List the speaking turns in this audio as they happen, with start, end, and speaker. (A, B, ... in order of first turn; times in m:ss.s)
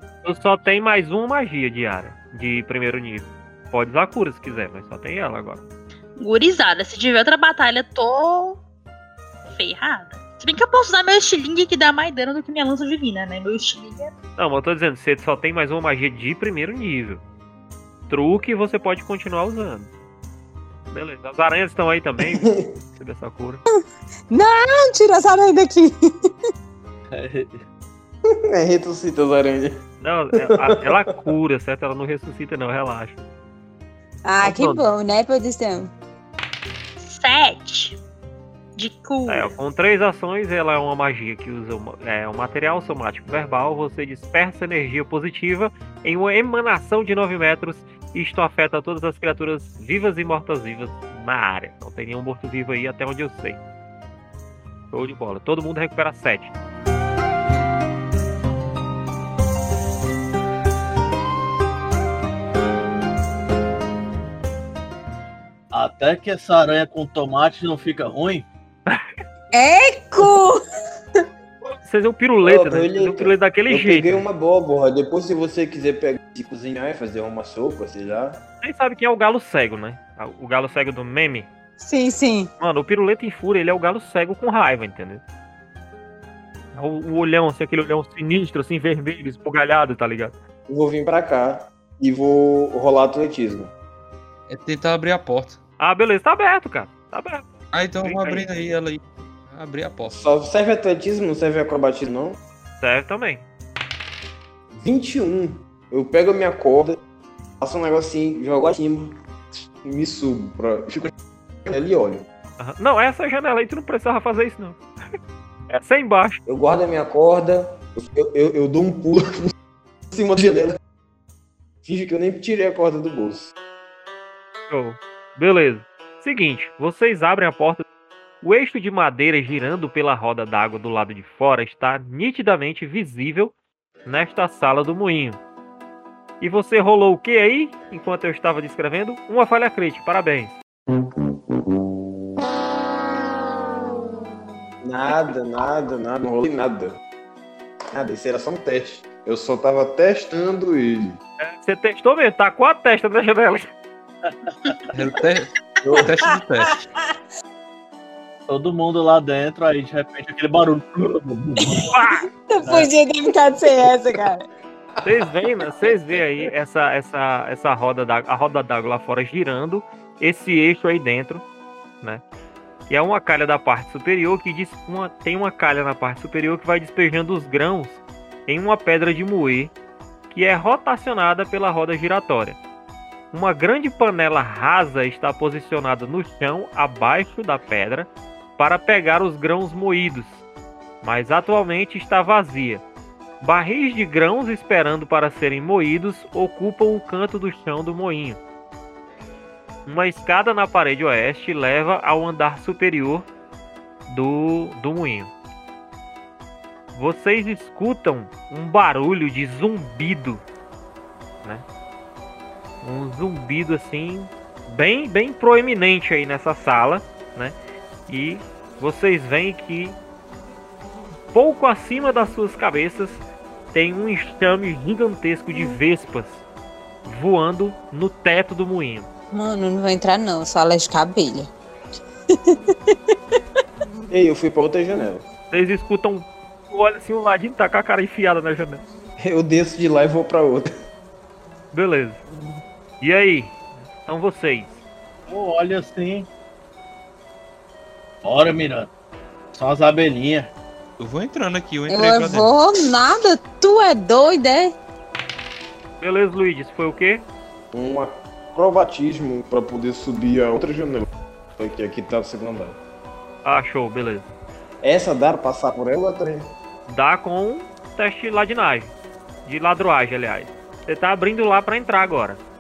0:00.2-0:05.6 A
0:06.2-0:08.6 B
0:09.5-0:14.1 B
0:14.4-0:17.2 A
0:18.1-0:19.9 A
0:20.9-0:23.6 A
0:22.3-0:22.7 C
0:24.3-0:26.3 D
0:27.1-0:27.6 E
0:28.3-0:29.8 C
0:30.0-0:33.2 A
0:30.4-0:31.3 C
0:34.3-0:35.9 D
0:34.4-0:34.9 A
0:37.0-0:38.0 B
0:38.8-0:39.5 B
0:39.3-0:53.6 A
0:54.9-0:56.5 A
1:05.7-1:08.5 E
1:09.5-1:10.6 D
1:11.8-1:14.3 A
1:12.4-1:18.4 C
1:18.6-1:21.5 A
1:21.8-1:22.5 D
1:22.6-1:25.2 A
1:26.7-1:30.4 A
1:30.7-1:33.7 C
1:34.5-1:35.6 F
1:35.8-1:37.4 A
1:37.7-1:40.3 F
1:38.0-1:38.5 A
1:40.1-1:42.4 C
1:42.8-1:43.4 A
1:44.7-1:47.0 C
1:47.6-1:51.1 C
1:51.7-1:52.3 C
1:52.6-1:54.8 A
1:55.7-1:56.4 A
1:56.5-1:59.5 C
2:00.1-2:00.8 C
2:01.8-2:03.5 C
2:04.7-2:07.8 A
2:08.4-2:13.5 A
2:14.1-2:15.4 A
2:16.4-2:20.6 A
2:24.8-2:27.0 C
2:27.9-2:31.2 C
2:31.4-2:33.7 A
2:34.9-2:36.8 F
2:35.8-2:36.1 E
2:38.5-2:41.9 E
2:41.8-2:44.4 D
2:41.9-2:42.2 A
2:45.0-2:51.4 A
2:52.9-2:59.7 A
3:00.3-3:02.6 A
3:03.3-3:10.4 A
3:11.0-3:12.8 A
3:13.4-3:18.4 A
3:19.9-3:23.3 A
3:24.1-3:25.3 A
3:26.9-3:30.4 A
3:32.8-3:37.6 A
3:38.1-3:40.0 A
3:41.3-3:43.2 A
3:43.7-3:46.4 A
3:47.0-3:49.1 A
3:49.3-3:51.5 D
3:52.3-3:53.0 D
3:54.1-3:55.2 C
3:55.5-3:58.8 A
3:59.2-4:00.7 C
4:01.7-4:02.2 A
4:03.0-4:04.8 A
4:05.3-4:06.3 E
4:08.2-4:08.9 E
4:09.5-4:10.5 E
4:11.0-4:12.5 F
4:11.9-4:14.7 D
4:16.0-4:17.2 A
4:17.7-4:21.1 C
4:21.6-4:22.8 C
4:23.4-4:24.3 A
4:24.8-4:26.5 C
4:26.9-4:28.9 A
4:29.5-4:32.4 A